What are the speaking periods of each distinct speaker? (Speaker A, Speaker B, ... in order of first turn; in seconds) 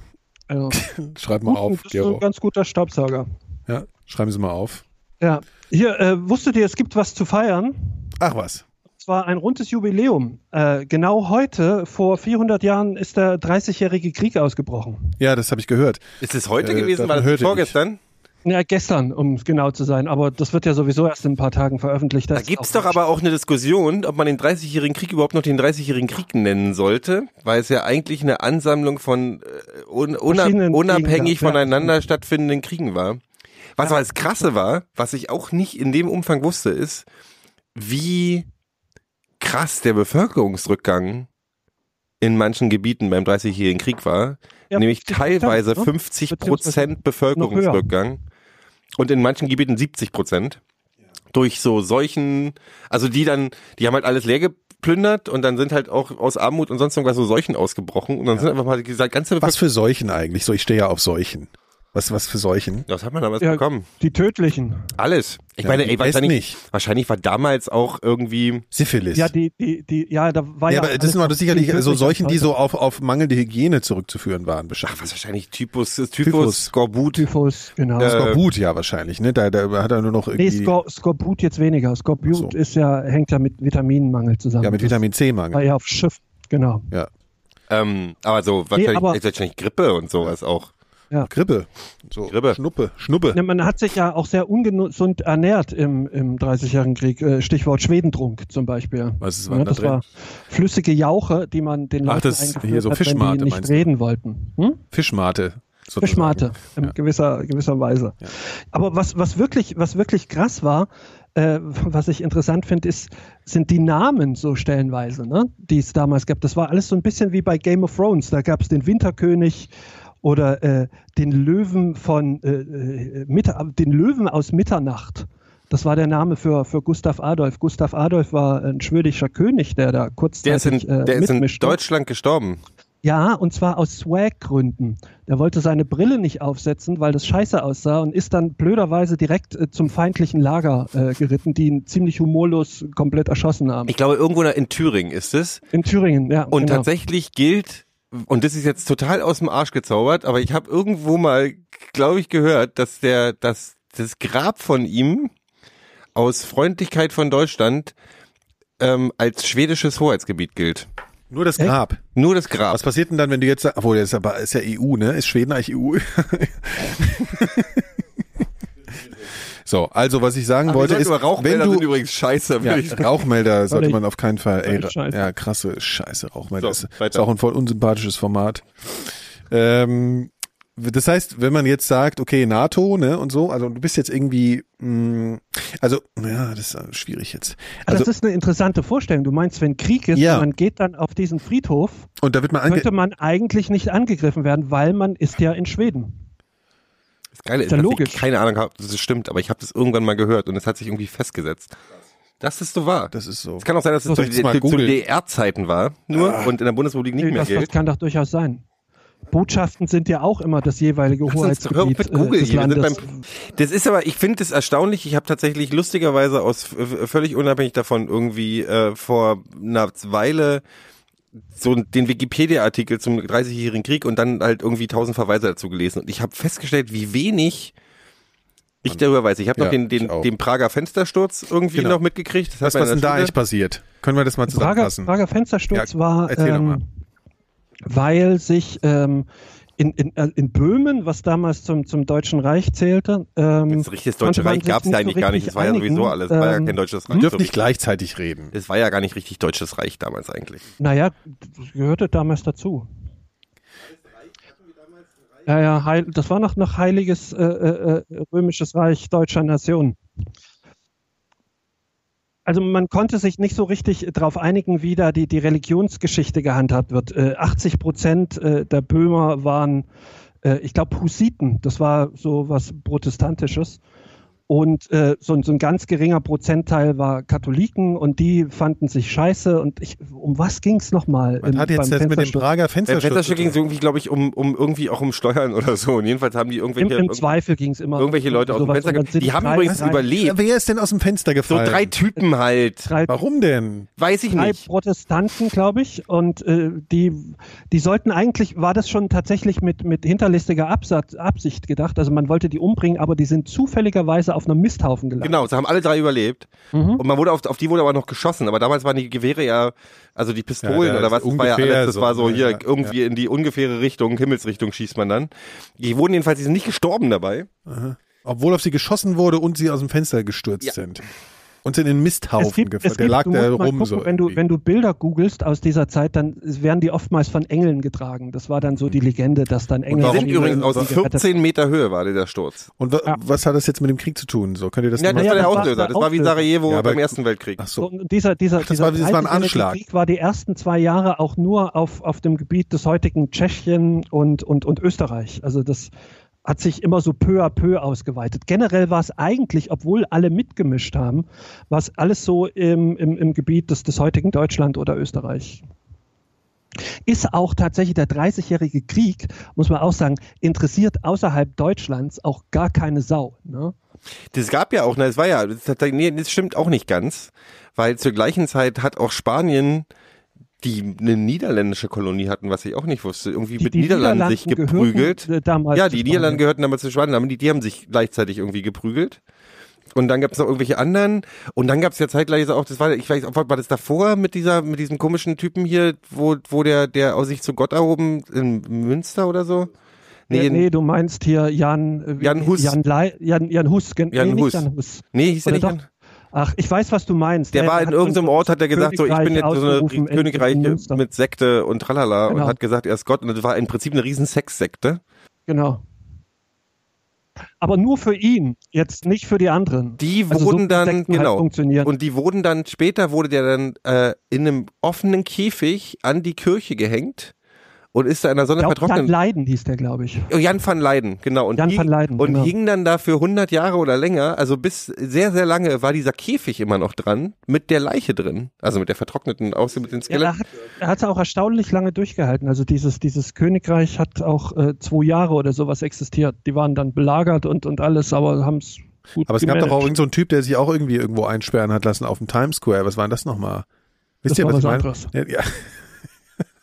Speaker A: 0.5-0.8, 1.4-3.3, 5.2-8.0, 9.0-15.1, 18.4-23.0, 30.3-31.9, 44.7-47.9, 63.4-64.9, 69.1-72.5, 77.1-78.3, 80.3-85.0, 85.5-86.9, 88.7-89.2, 93.3-104.8, 106.0-119.7, 120.2-131.8, 133.0-143.9, 145.7-146.9, 173.7-174.0, 174.6-175.2, 187.9-192.1, 192.7-196.2, 197.7-198.2, 207.2-208.6, 209.3-213.2, 234.5-236.8, 237.9-239.3, 239.8-247.2, 250.8-252.9, 255.4-260.0, 262.4-269.9, 270.4-273.8, 274.5-282.4, 286.8-290.1, 292.9-293.2, 294.3-305.4, 306.7-307.0, 322.4-331.3, 335.1-336.4, 337.8-345.9, 346.4-355.6, 357.1-363.7, 373.6-376.4, 390.3-395.8, 396.3-401.0, 402.3-402.6, 405.5-405.8, 407.6-411.9, 418.6-420.3, 421.6-422.5, 430.1-439.9, 444.3-445.1
Speaker B: 0.7-2.2, 3.7-4.8, 8.2-8.6, 15.2-16.0, 16.6-17.7, 59.4-62.9, 65.6-66.6, 68.7-69.3, 70.7-75.1, 76.2-76.7, 78.0-80.7, 82.3-82.5, 84.6-85.6, 91.3-93.4, 99.2-100.0, 102.0-103.9, 104.9-106.9, 161.3-162.0, 162.7-168.0, 169.2-171.9, 172.6-188.1, 190.1-190.5, 192.2-192.9, 203.1-205.0, 206.1-206.5, 229.6-230.3, 231.7-232.0, 232.6-235.1, 235.7-236.8, 247.1-248.5, 281.4-283.6, 289.6-291.9, 293.1-293.9, 310.6-312.9, 317.6-321.1, 321.6-324.4, 329.9-330.9, 332.8-335.7, 336.6-337.9, 338.6-339.8, 439.3-443.6, 444.2-445.9
Speaker C: 16.2-18.0, 22.3-33.2, 33.8-37.0, 37.7-38.5, 39.4-41.3, 42.2-48.2, 49.0-50.6, 51.3-59.6, 62.9-63.9, 65.0-68.6, 74.8-77.3, 78.0-78.4, 87.7-90.7, 92.3-92.6, 130.4-132.6, 143.9-145.6, 146.5-155.3, 156.1-157.9, 158.8-160.9, 162.2-162.8, 170.7-173.2, 176.6-177.2, 197.4-201.7, 202.4-207.7, 211.3-220.6, 221.6-227.7, 228.8-233.3, 243.7-247.6, 248.5-250.7, 282.9-287.3, 288.0-290.4, 291.5-292.9, 294.0-294.6, 305.2-317.5, 329.9-332.7, 335.0-337.6, 364.3-369.9, 370.6-379.2, 379.9-389.7, 390.3-390.7, 392.2-392.8, 394.1-395.9, 397.5-405.0, 410.0-417.3, 417.9-419.1, 420.3-430.3